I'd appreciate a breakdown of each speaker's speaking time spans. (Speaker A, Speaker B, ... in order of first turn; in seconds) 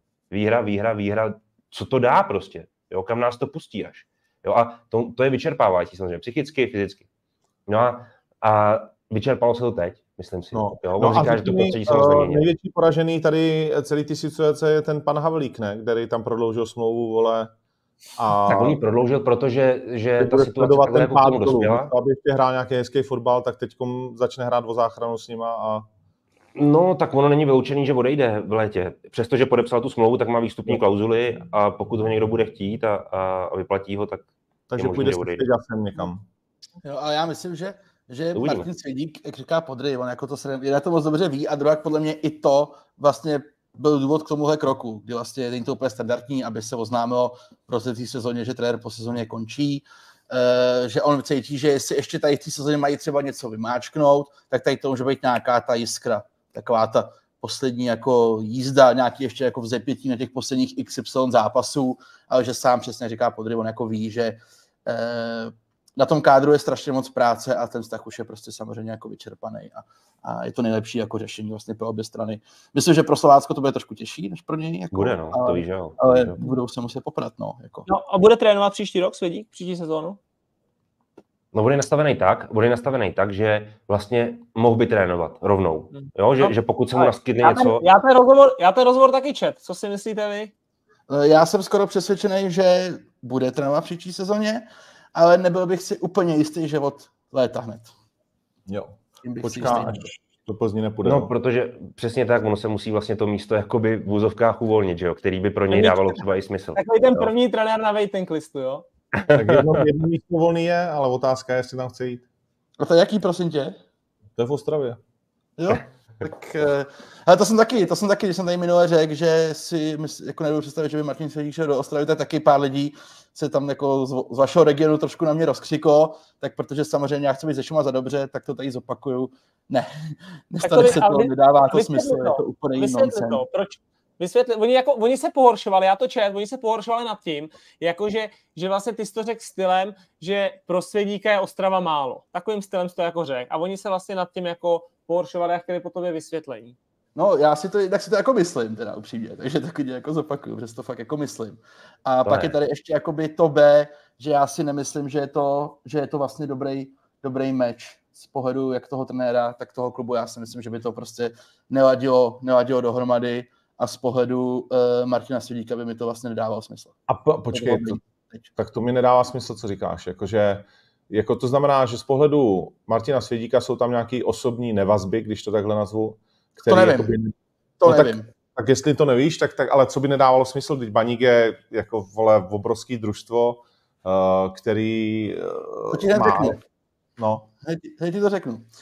Speaker A: 0.3-7.1, 7.7-12.5, 18.4-21.9, 26.6-35.5, 38.4-38.7, 74.9-76.5, 81.5-87.9, 101.0-107.3, 109.1-109.8, 152.2-152.6
Speaker B: 10.5-17.5, 18.2-18.8, 20.2-25.9, 34.7-36.2, 98.7-101.3, 109.3-112.2, 114.4-115.0, 167.1-168.0, 168.6-186.6, 187.2-187.5
Speaker C: 36.8-77.9, 91.1-97.9, 99.2-100.1, 112.8-113.8, 115.6-133.4, 147.2-166.9, 167.5-168.5, 176.6-177.1, 177.8-178.3, 185.9-186.6, 187.6-188.7
Speaker D: 77.9-80.2, 85.9-90.5, 105.7-106.2, 106.8-108.8, 130.6-146.8